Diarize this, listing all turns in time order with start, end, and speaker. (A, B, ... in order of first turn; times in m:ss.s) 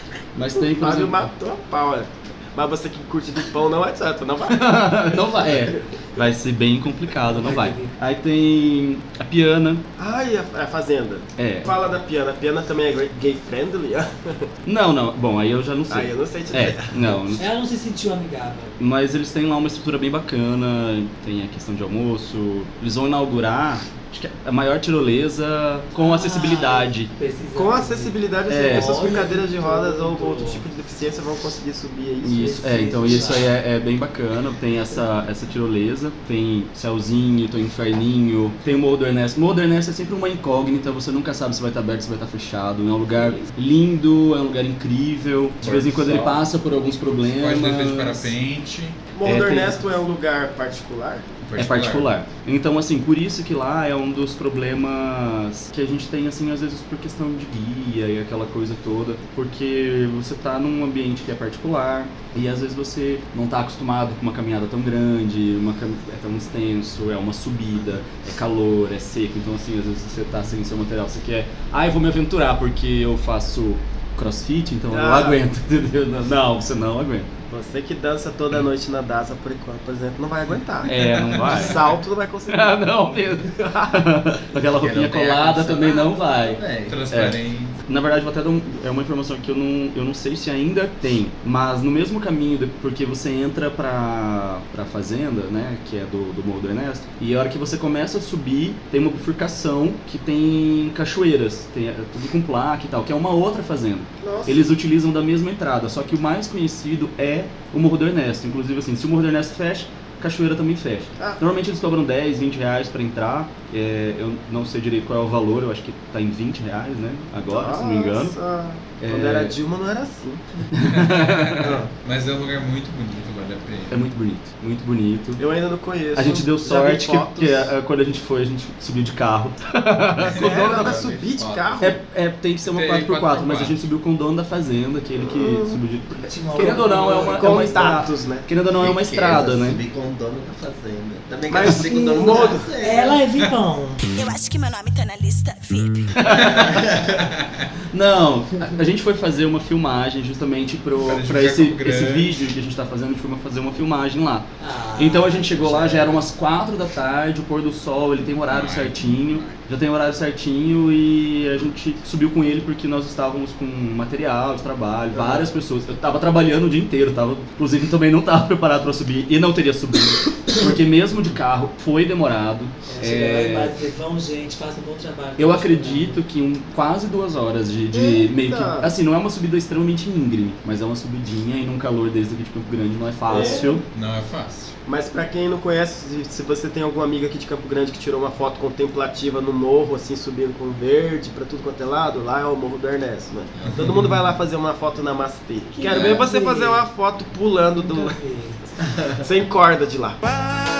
0:00.4-0:01.3 A
0:00.6-0:05.1 B
0:04.5-0:09.8 A
0:07.3-0:07.9 C
0:10.0-0:14.5 B
0:11.4-0:11.7 A
0:14.6-0:17.4 A
0:15.9-0:17.2 B
0:17.4-0:18.8 C
0:18.8-0:27.1 A
0:26.0-0:30.6 C
0:27.6-0:32.5 B
0:28.5-0:29.1 A
0:32.2-0:48.4 A
0:32.2-0:33.5 C
0:43.2-0:43.5 C
0:45.7-0:46.3 D
0:45.7-0:46.0 E
0:47.2-0:49.0 D
0:49.2-0:51.3 B
0:49.2-0:49.8 A
0:51.4-0:52.1 D
0:51.6-1:17.3 A
1:14.9-1:15.4 B
1:17.5-1:23.0 B
1:20.8-1:21.8 A
1:21.3-1:21.8 D
1:22.5-1:58.4 A
1:23.6-1:24.0 B
1:24.7-1:27.0 E
1:26.9-1:27.8 D
1:44.2-1:44.7 B
1:57.5-2:00.4 B
1:59.0-1:59.6 A
2:00.7-2:01.8 A
2:00.9-2:04.0 D
2:01.6-2:01.9 B
2:03.9-2:05.4 A
2:05.4-2:07.7 B
2:06.1-2:10.7 A
2:10.3-2:12.0 B
2:10.4-2:10.8 D
2:10.4-2:11.9 E
2:11.8-2:19.8 A
2:12.6-2:13.8 D
2:15.2-2:15.8 B
2:16.2-2:17.9 C
2:17.3-2:18.5 B
2:18.8-2:23.2 E
2:21.5-2:22.7 B
2:21.8-2:24.0 C
2:24.1-2:26.3 F
2:26.2-2:27.0 A
2:26.5-2:27.6 D
2:27.9-2:53.8 A
2:31.0-2:32.4 D
2:34.6-2:36.3 C
2:38.5-2:39.6 D
2:45.1-2:45.5 B
2:52.9-2:56.2 C
2:55.4-3:03.8 A
2:57.9-2:58.9 B
3:03.3-3:03.8 B
3:03.3-3:03.7 C
3:03.9-3:04.8 D
3:04.9-3:18.2 B
3:13.6-3:13.9 E
3:15.7-3:16.8 C
3:15.9-3:16.2 E
3:17.8-3:18.6 C
3:19.2-3:20.2 B